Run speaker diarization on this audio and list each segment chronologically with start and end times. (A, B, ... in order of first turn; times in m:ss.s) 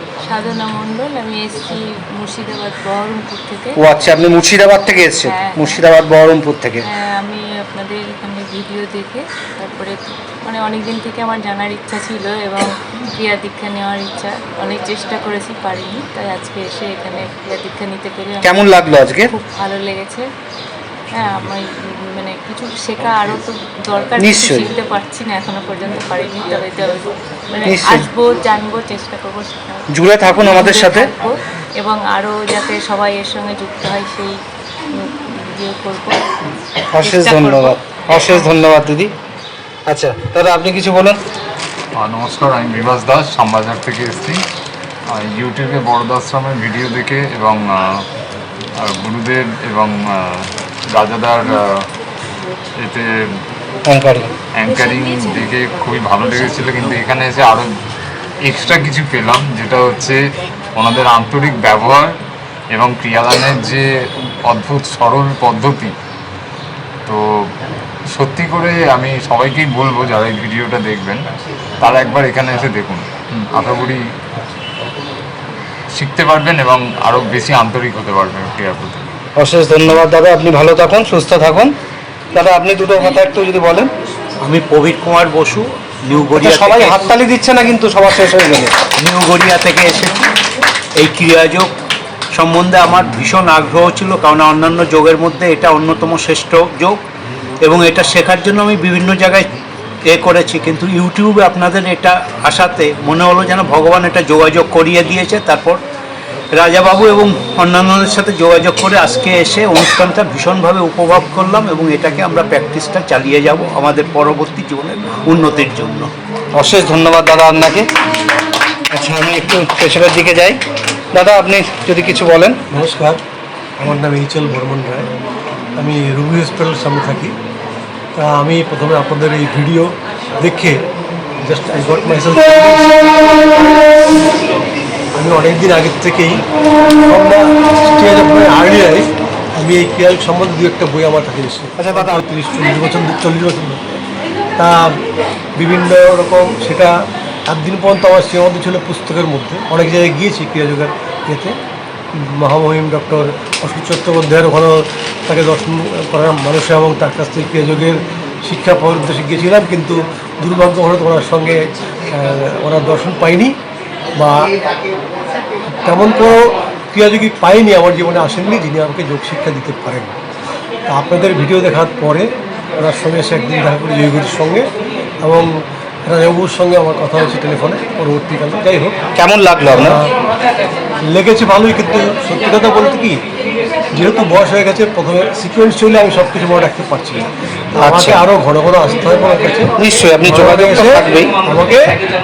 0:00.2-0:04.2 A
0:03.8-0:06.8 B
0:05.2-0:05.8 A
0:06.9-0:20.3 A
0:18.4-0:19.3 B
0:21.1-0:34.4 A
0:24.2-0:24.7 B
0:27.6-0:28.1 B
0:29.9-0:31.1 B
0:34.9-0:36.2 A
0:37.0-0:39.1 B
0:37.0-0:38.5 A
0:39.9-0:41.2 B
0:42.0-0:44.4 C
0:45.1-0:48.0 C
0:48.9-0:51.8 C
0:52.8-0:53.1 C
0:53.9-0:54.3 B
0:54.5-0:57.7 C
0:58.4-1:00.2 C
1:00.8-1:02.2 C
1:02.7-1:03.8 C
1:04.4-1:05.9 C
1:07.1-1:07.4 C
1:08.1-1:11.2 C
1:11.8-1:14.0 C
1:15.9-1:19.0 C
1:19.4-1:21.7 B
1:22.3-1:23.9 B
1:24.4-1:27.1 D
1:26.4-1:28.7 B
1:29.0-1:30.2 D
1:31.0-1:31.7 D
1:32.3-1:37.0 D
1:37.6-1:39.5 D
1:40.1-1:45.8 D
1:46.5-1:56.1 D
1:56.6-1:57.8 B
1:58.9-2:00.6 B
2:01.1-2:02.6 B
2:02.7-2:03.2 E
2:03.8-2:05.1 E
2:05.8-2:07.3 E
2:08.2-2:10.8 E
2:11.4-2:13.9 E
2:15.1-2:16.4 E
2:17.1-2:24.0 E
2:21.8-2:22.2 B
2:24.6-2:24.9 E
2:25.6-2:26.9 E
2:27.5-2:31.5 E
2:32.2-2:41.6 E
2:42.1-2:43.5 E
2:44.2-2:44.5 E
2:45.8-2:50.1 E
2:50.9-2:52.3 E
2:52.8-2:54.6 E
2:55.2-2:55.5 E
2:56.1-2:58.9 E
2:59.2-3:00.0 B
2:59.7-3:00.1 E
3:01.0-3:03.2 E
3:03.9-3:11.9 E
3:07.8-3:08.2 B
3:09.8-3:11.3 B